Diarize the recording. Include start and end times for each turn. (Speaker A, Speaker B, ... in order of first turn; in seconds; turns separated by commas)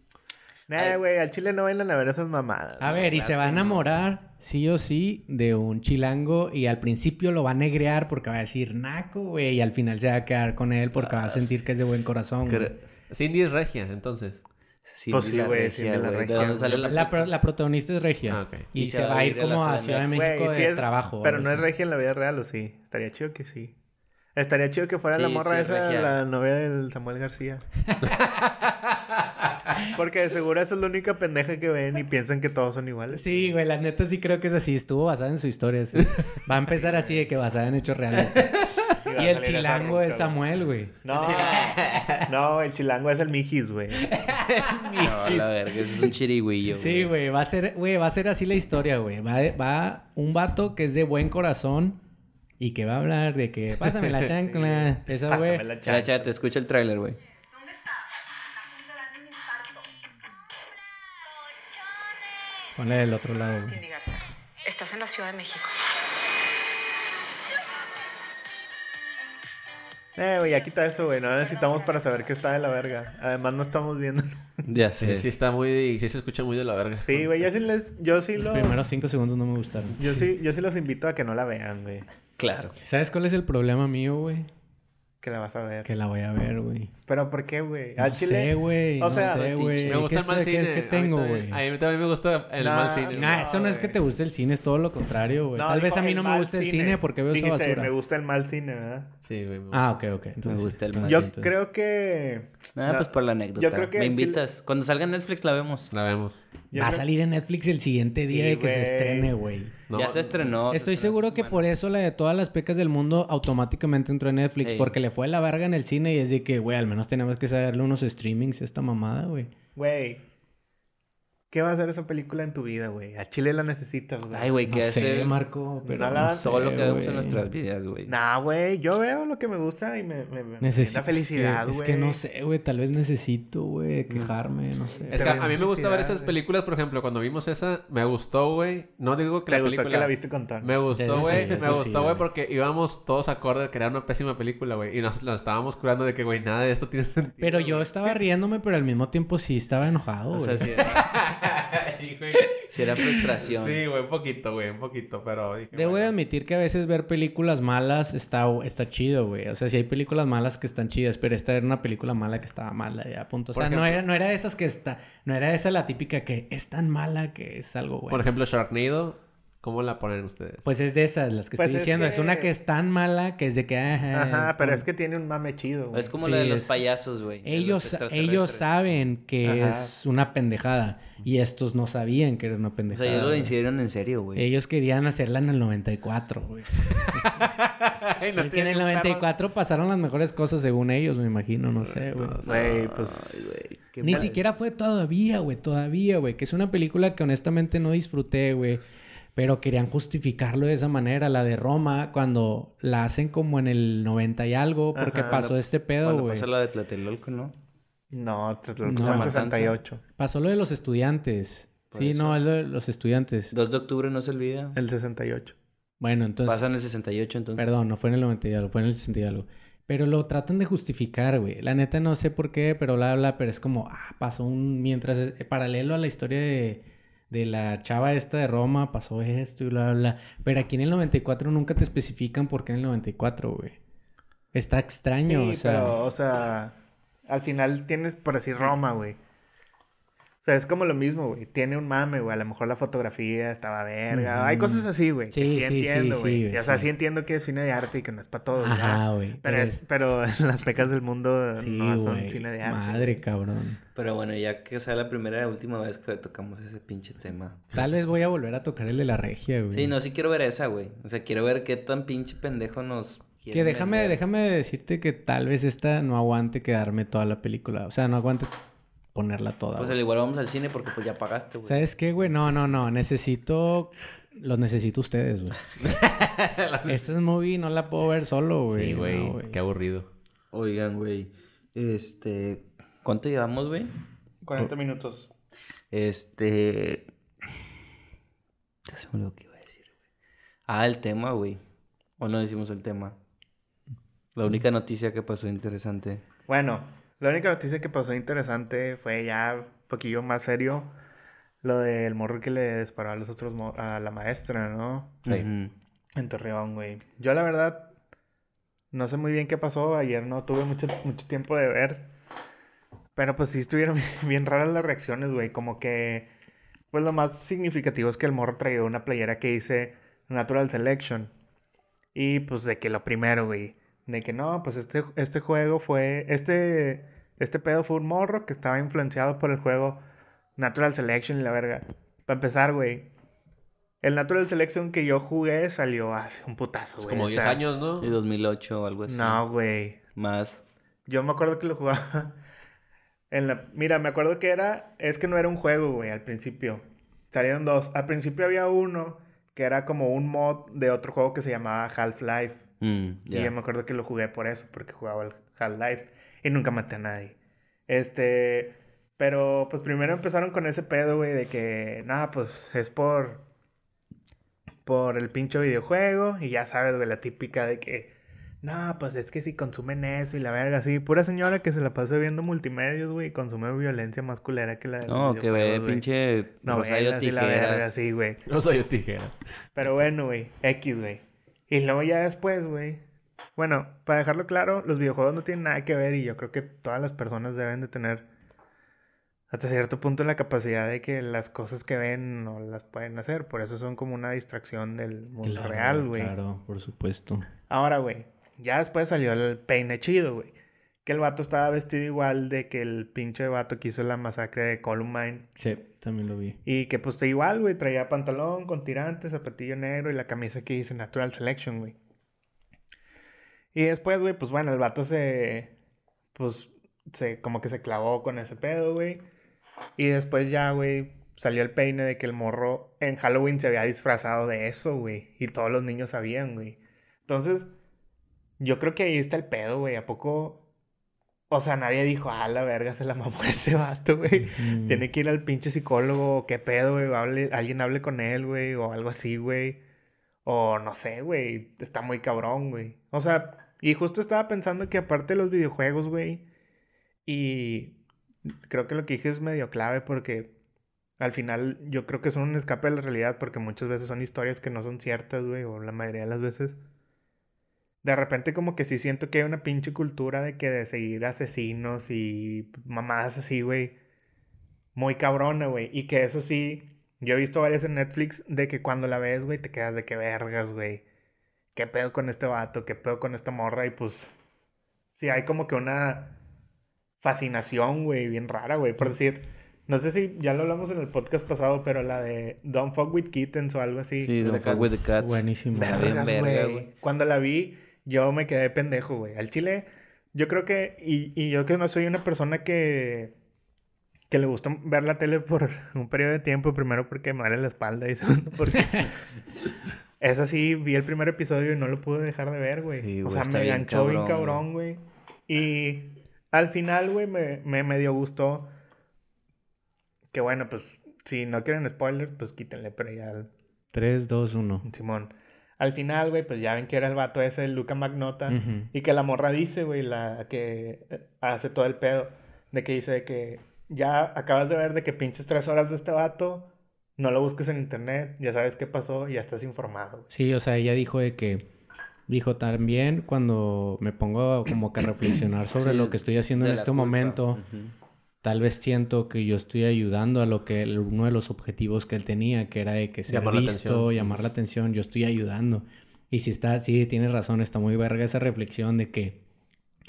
Speaker A: 0.7-3.7, Speaker B: 2.8-12.7, Speaker C: 10.9-11.6, Speaker C: 12.4-12.7, Speaker D: 13.1-14.4, Speaker C: 14.9-17.3, Speaker A: 15.1-17.1, Speaker D: 16.3-16.9, Speaker B: 16.9-21.7, Speaker D: 18.3-18.7, Speaker C: 18.7-20.3, Speaker A: 20.1-23.7, Speaker A: 24.3-27.6, Speaker C: 25.1-26.2, Speaker B: 27.9-28.1, Speaker D: 28.1-29.0, Speaker A: 29.8-33.5, Speaker B: 33.1-41.0, Speaker A: 36.7-37.3, Speaker D: 38.3-38.9, Speaker A: 39.0-40.3, Speaker A: 41.0-44.2, Speaker D: 41.1-42.3, Speaker B: 44.1-44.8, Speaker D: 44.5-46.0, Speaker C: 44.9-47.1, Speaker B: 46.7-52.0, Speaker B: 52.6-55.6, Speaker A: 54.4-56.3, Speaker C: 55.8-57.2, Speaker E: 57.5-59.9, Speaker B: 62.8-63.8, Speaker E: 63.7-65.9, Speaker A: 70.2-74.6, Speaker E: 70.6-73.0, Speaker C: 74.7-75.3, Speaker D: 75.0-77.5, Speaker A: 77.0-78.8, Speaker B: 78.4-80.3, Speaker A: 80.0-82.1, Speaker C: 82.4-82.7, Speaker B: 82.8-84.5, Speaker A: 85.2-85.9, Speaker B: 85.8-86.9, Speaker A: 87.1-89.9, Speaker B: 88.0-91.6, Speaker C: 89.1-90.0, Speaker D: 89.8-93.5, Speaker A: 92.6-94.0, Speaker B: 93.1-97.9, Speaker A: 95.5-99.1, Speaker D: 99.2-99.8, Speaker B: 99.7-101.5, Speaker C: 100.5-101.3, Speaker A: 101.1-104.4, Speaker C: 102.7-105.9, Speaker D: 105.9-106.4, Speaker A: 106.7-107.0, Speaker B: 106.7-109.7, Speaker A: 108.2-109.3, Speaker D: 109.9-110.5, Speaker C: 109.9-111.6, Speaker B: 110.7-119.5, Speaker C: 114.6-115.0, Speaker A: 119.7-120.2, Speaker A: 121.5-124.6, Speaker C: 124.3-125.3, Speaker B: 124.7-127.5, Speaker A: 125.9-126.9, Speaker C: 126.4-128.2, Speaker A: 128.1-132.2, Speaker B: 130.6-135.5, Speaker A: 135.0-136.4, Speaker D: 135.1-147.8, Speaker A: 139.5-140.7, Speaker B: 140.9-142.2, Speaker A: 141.3-141.6, Speaker B: 147.4-150.7, Speaker C: 150.3-151.1, Speaker D: 150.8-152.6, Speaker C: 152.7-153.8, Speaker D: 153.2-156.1, Speaker B: 155.7-168.3, Speaker D: 163.6-164.0, Speaker D: 168.1-170.7, Speaker B: 170.6-174.9, Speaker A: 171.6-172.5, Speaker A: 174.1-176.1, Speaker C: 175.9-178.7, Speaker B: 176.2-176.8, Speaker B: 177.4-183.6, Speaker A: 179.4-179.9, Speaker C: 182.9-184.4, Speaker B: 184.3-187.5, Speaker D: 186.9-189.3, Speaker B: 188.3-192.4, Speaker D: 191.9-192.8, Speaker C: 192.4-194.4, Speaker A: 192.4-193.4, Speaker B: 194.0-198.8, Speaker A: 194.1-194.3, Speaker B: 199.4-206.5, Speaker A: 204.9-205.4, Speaker C: 205.2-207.5, Speaker A: 208.1-210.0, Speaker B: 208.8-209.5, Speaker C: 208.9-209.8, Speaker B: 210.2-213.5, Speaker C: 211.9-212.4, Speaker C: 213.5-214.8, Speaker A: 214.7-215.6, Speaker B: 216.0-216.7, Speaker C: 216.4-217.7, Speaker B: 217.6-233.8, Speaker B: 234.5-235.9, Speaker A: 235.2-236.7, Speaker A: 237.3-239.2, Speaker A: 240.4-253.2, Speaker B: 244.1-246.9, Speaker B: 248.6-249.8, Speaker B: 251.6-253.8, Speaker C: 253.9-257.6, Speaker B: 257.7-259.9, Speaker C: 259.7-264.2, Speaker B: 263.5-268.5, Speaker B: 269.1-270.0, Speaker C: 269.8-272.9, Speaker B: 271.6-275.6, Speaker D: 275.8-277.0, Speaker B: 276.9-279.6, Speaker D: 278.7-280.1, Speaker C: 280.5-283.9, Speaker A: 284.4-285.3, Speaker C: 285.9-287.1, Speaker C: 288.9-289.8, Speaker C: 290.7-291.6, Speaker C: 292.2-293.2, Speaker C: 294.3-296.2, Speaker A: 296.5-300.9, Speaker A: 301.6-305.2, Speaker C: 305.3-305.7, Speaker A: 306.2-307.9, Speaker A: 308.9-312.1, Speaker A: 313.2-316.3, Speaker A: 316.9-321.3, Speaker A: 322.1-330.0, Speaker A: 330.6-333.1, Speaker A: 334.0-337.6, Speaker D: 337.0-338.2, Speaker C: 338.0-339.4, Speaker A: 339.1-340.0, Speaker C: 340.2-340.6, Speaker A: 341.1-342.4, Speaker A: 343.3-352.6, Speaker C: 352.8-353.5, Speaker A: 353.3-357.4, Speaker A: 357.9-363.4, Speaker A: 364.9-376.0, Speaker C: 375.1-377.9, Speaker A: 376.6-378.4, Speaker D: 378.4-380.0, Speaker A: 379.8-383.0, Speaker A: 383.6-388.2, Speaker A: 389.5-396.3, Speaker B: 395.4-397.5, Speaker A: 397.7-400.5, Speaker A: 401.1-405.5, Speaker B: 405.6-406.6, Speaker A: 406.6-411.9, Speaker A: 413.7-415.7, Speaker A: 416.3-419.2, Speaker A: 420.0-427.7, Speaker A: 428.6-430.6, Speaker A: 431.5-439.8, Speaker B: 434.4-435.1, Speaker A: 440.4-446.4, Speaker A: 447.3-447.9, Speaker A: 448.7-450.5, Speaker A: 451.2-456.8, Speaker A: 458.0-463.9, Speaker A: 464.9-471.0, Speaker A: 471.7-474.3, Speaker A: 475.1-476.4, Speaker A: 477.2-485.1, Speaker C: 484.2-486.9, Speaker B: 485.1-486.2, Speaker A: 485.7-493.3, Speaker A: 494.3-499.2, Speaker A: 500.2-508.7, Speaker C: 502.9-504.6, Speaker A: 510.3-513.5, Speaker B: 513.9-514.8, Speaker A: 514.8-526.7, Speaker B: 518.5-518.9, Speaker A: 527.2-530.3, Speaker B: 530.3-531.7, Speaker B: 532.3-537.6, Speaker C: 535.8-537.9, Speaker B: 538.4-549.4, Speaker D: 543.3-544.4